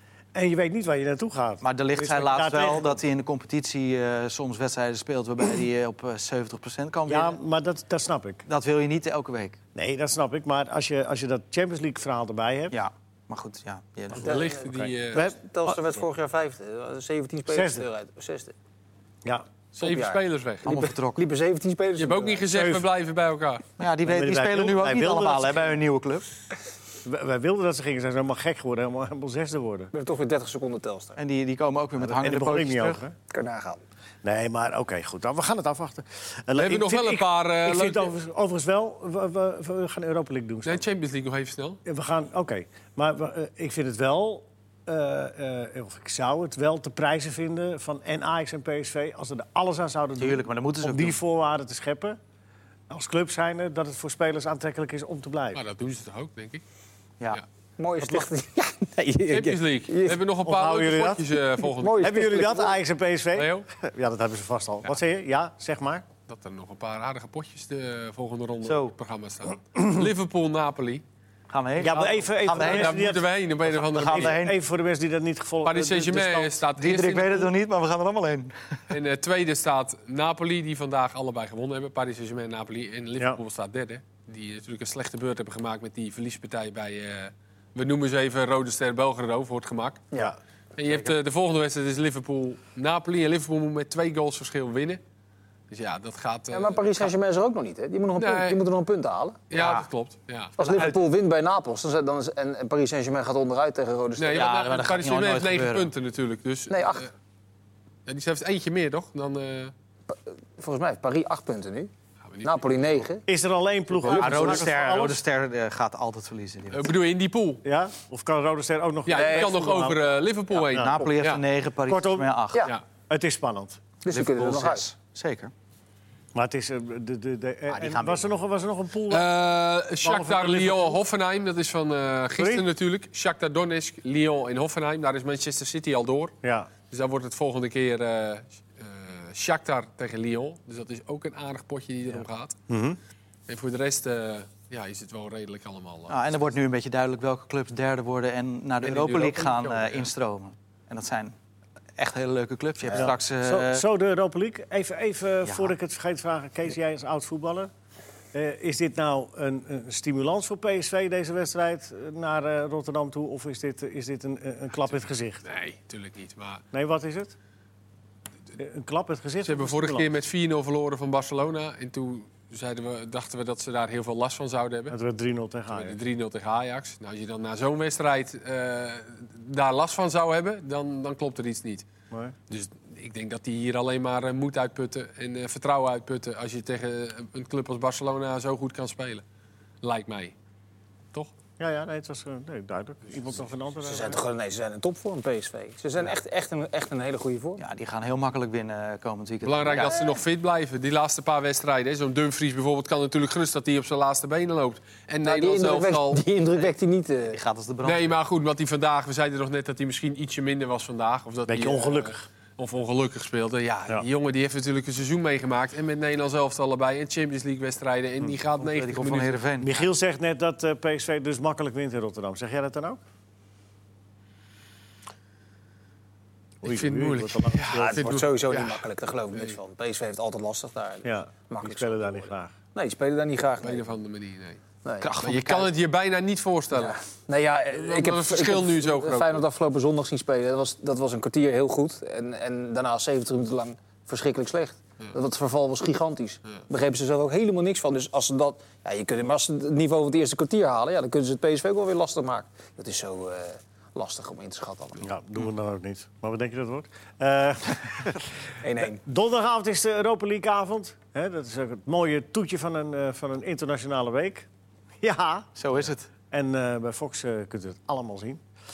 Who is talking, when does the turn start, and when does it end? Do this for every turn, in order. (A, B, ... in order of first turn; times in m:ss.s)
0:00.3-0:03.0 A
0:01.6-0:07.4 B
0:07.1-0:08.4 A
0:08.5-0:09.6 B
0:09.7-0:12.8 A
0:12.7-0:14.5 B
0:14.2-0:18.5 C
0:14.2-0:15.2 D
0:15.1-0:15.8 A
0:17.5-0:17.8 A
0:19.8-0:20.8 D
0:19.8-0:22.4 C
0:20.6-0:21.2 B
0:22.0-0:23.6 D
0:22.5-0:22.9 A
0:23.8-0:26.3 B
0:24.0-0:25.8 A
0:27.0-0:29.9 A
0:29.9-0:31.2 C
0:31.2-0:33.0 B
0:32.0-0:33.1 A
0:33.3-0:33.8 C
0:34.2-0:40.8 A
0:36.6-0:38.1 D
0:40.6-0:41.8 D
0:41.8-0:52.2 A
0:50.2-0:51.2 B
0:52.9-0:55.6 A
0:55.5-0:56.6 D
0:57.8-1:00.2 C
0:59.3-1:02.1 D
1:00.4-1:01.4 A
1:01.8-1:02.8 C
1:02.0-1:06.0 A
1:03.4-1:03.6 D
1:06.3-1:11.0 D
1:08.6-1:08.9 B
1:11.5-1:13.1 B
1:11.8-1:13.3 A
1:12.5-1:14.4 D
1:13.8-1:14.6 B
1:13.9-1:16.6 A
1:15.6-1:17.5 D
1:16.8-1:18.8 B
1:18.9-1:30.1 D
1:30.8-1:35.0 D
1:35.7-1:37.1 D
1:36.5-1:39.4 C
1:38.2-1:38.6 D
1:39.5-1:40.9 D
1:39.5-1:39.8 B
1:40.6-1:44.5 C
1:44.2-1:47.1 D
1:44.3-1:45.9 B
1:46.7-1:47.1 C
1:48.0-1:49.7 D
1:50.1-1:51.9 C
1:52.3-1:52.6 D
1:52.4-1:53.2 C
1:53.3-1:55.2 A
1:54.0-1:56.9 B
1:54.1-1:54.6 C
1:56.7-1:57.6 D
1:57.6-2:00.0 A
1:59.1-2:01.4 D
1:59.1-1:59.6 C
2:00.6-2:02.7 B
2:00.7-2:01.1 A
2:01.9-2:02.3 A
2:03.1-2:03.8 A
2:04.0-2:04.9 C
2:04.1-2:05.5 B
2:06.3-2:09.3 A
2:07.7-2:08.2 B
2:09.1-2:16.3 D
2:10.0-2:11.0 A
2:12.4-2:12.6 A
2:16.4-2:16.7 A
2:16.9-2:22.5 D
2:22.7-2:23.0 A
2:23.5-2:26.2 D
2:26.1-2:31.3 B
2:28.8-2:30.1 D
2:32.0-2:33.8 B
2:32.9-2:37.7 A
2:35.4-2:35.7 B
2:38.3-2:45.4 A
2:44.8-2:46.6 D
2:46.7-2:47.3 A
2:48.6-2:50.1 A
2:49.4-2:54.9 D
2:54.9-2:56.0 A
2:55.7-3:01.8 D
3:02.5-3:09.2 D
3:09.8-3:10.3 D
3:11.6-3:14.2 A
3:13.8-3:17.6 C
3:17.6-3:20.1 B
3:19.4-3:26.2 D
3:25.2-3:27.4 C
3:27.3-3:28.1 B
3:27.8-3:39.4 D
3:31.5-3:32.2 A
3:38.6-3:39.7 B
3:39.6-3:43.0 A
3:46.6-3:48.1 A
3:46.6-3:48.8 D
3:47.7-3:53.9 C
3:51.0-3:52.5 A
3:53.6-3:54.6 D
3:55.0-3:55.7 B
3:55.2-3:57.0 D
3:56.7-4:15.0 C
3:57.8-3:59.4 D
4:15.0-4:18.3 A
4:18.6-4:19.0 C
4:19.0-4:24.5 A
4:25.0-4:25.5 A
4:25.6-4:26.1 B
4:26.3-4:28.4 A